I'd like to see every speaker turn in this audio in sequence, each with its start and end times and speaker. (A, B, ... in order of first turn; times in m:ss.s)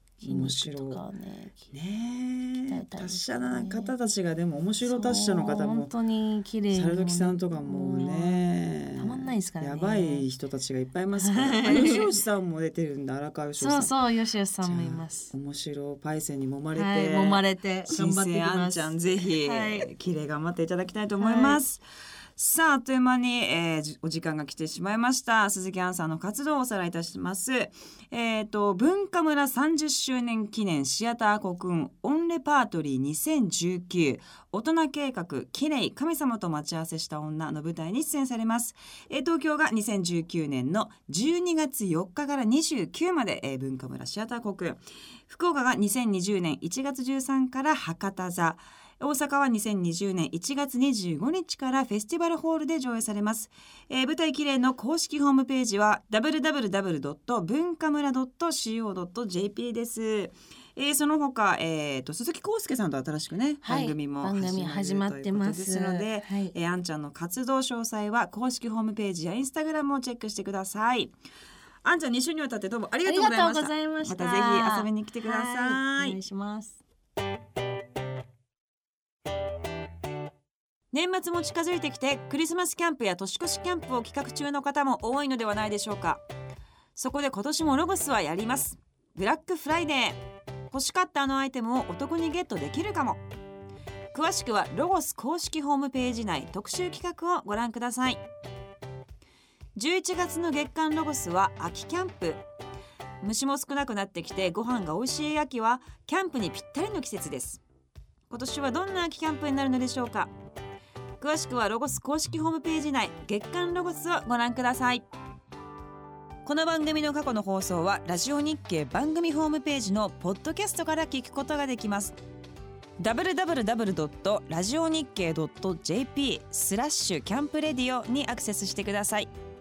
0:00.2-0:01.7 A
0:00.2-0:01.0 B
0:01.7-0:05.9 B
0:02.7-0:03.9 A
0:04.8-0:10.3 A
0:06.7-0:13.9 B
0:11.2-0:12.1 A
0:13.6-0:15.3 A
0:14.6-0:21.8 B
0:16.8-0:19.9 A
0:21.2-0:21.6 A
0:22.4-1:11.2 B
1:03.6-1:06.6 A
1:11.8-1:16.2 B
1:13.1-1:16.8 A
1:20.9-1:26.2 B
1:27.0-1:33.2 B
1:34.1-1:38.2 B
1:39.8-1:42.4 B
1:43.2-1:47.6 B
1:48.3-1:50.3 B
1:51.2-1:55.0 B
1:56.4-2:02.2 B
2:03.0-2:09.3 B